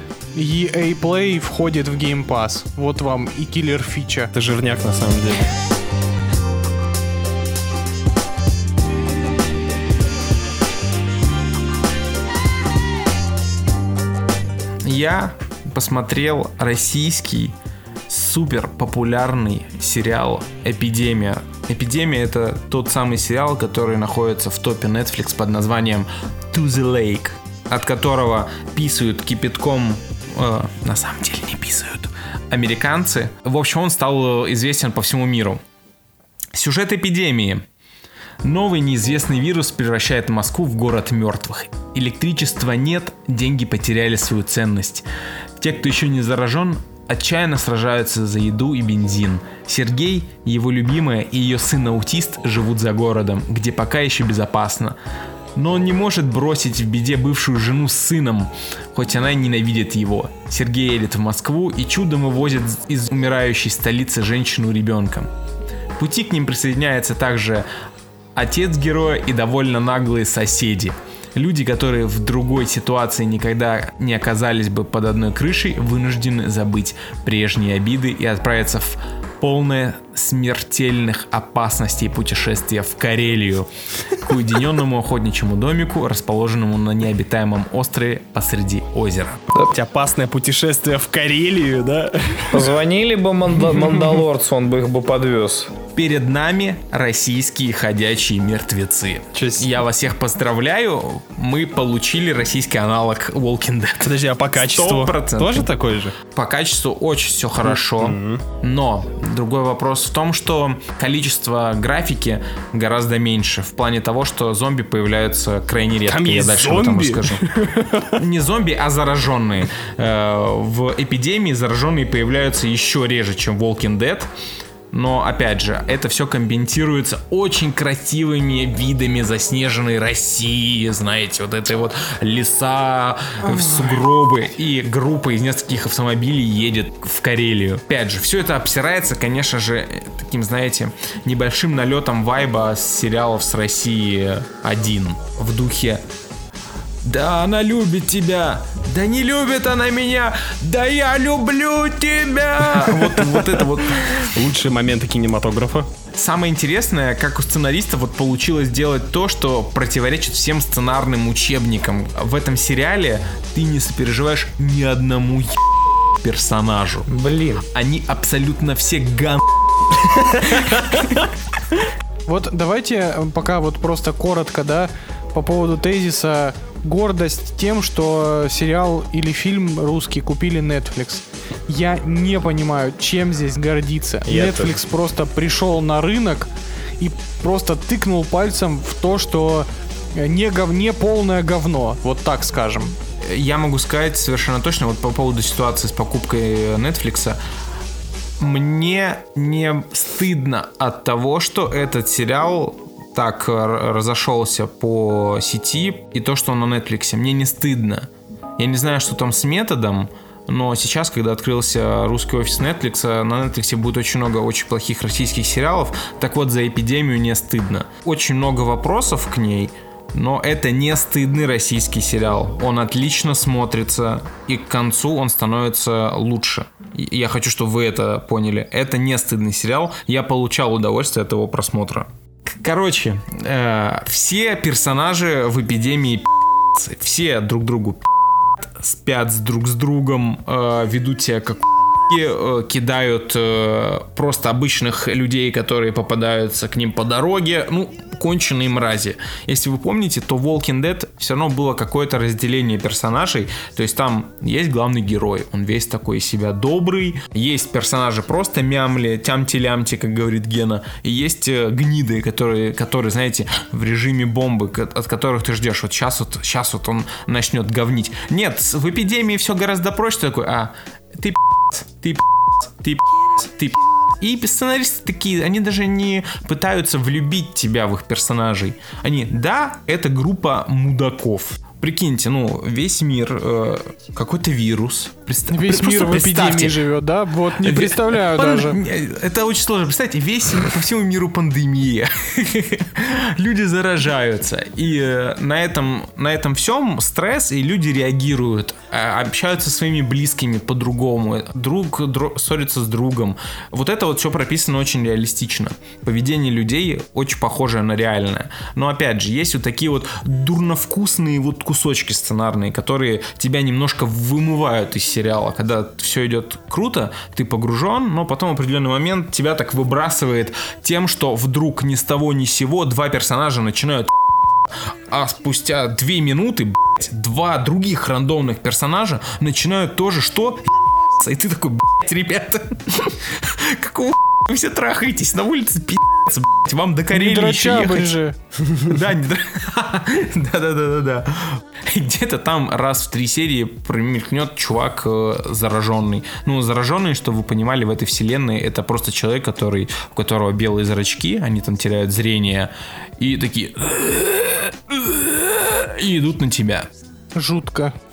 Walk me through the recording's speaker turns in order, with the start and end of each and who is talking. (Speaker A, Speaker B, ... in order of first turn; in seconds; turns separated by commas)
Speaker A: 0.3-4.3, Speaker B: 4.3-5.5, Speaker C: 14.8-17.5, Speaker C: 18.1-35.6, Speaker C: 36.5-37.6, Speaker C: 38.4-45.0, Speaker C: 45.6-55.0, Speaker C: 55.5-65.3, Speaker C: 66.0-67.7, Speaker C: 68.4-89.5, Speaker B: 89.6-92.7, Speaker D: 92.5-95.8, Speaker C: 95.9-117.4, Speaker B: 99.3-99.7, Speaker B: 104.0-106.2, Speaker B: 107.7-108.4, Speaker B: 116.1-118.2, Speaker C: 118.2-124.3, Speaker C: 124.9-146.0, Speaker C: 147.0-154.4, Speaker B: 154.2-155.9, Speaker C: 156.2-165.6, Speaker C: 166.2-167.1, Speaker D: 167.1-167.6, Speaker C: 167.7-171.2, Speaker A: 172.3-186.5, Speaker D: 184.3-184.8, Speaker A: 187.0-192.9, Speaker C: 193.2-197.4, Speaker C: 198.4-238.0, Speaker C: 238.6-286.9, Speaker A: 285.5-288.8, Speaker C: 287.6-324.1, Speaker C: 325.1-338.1, Speaker A: 337.1-338.4, Speaker C: 338.7-356.9, Speaker A: 357.4-358.0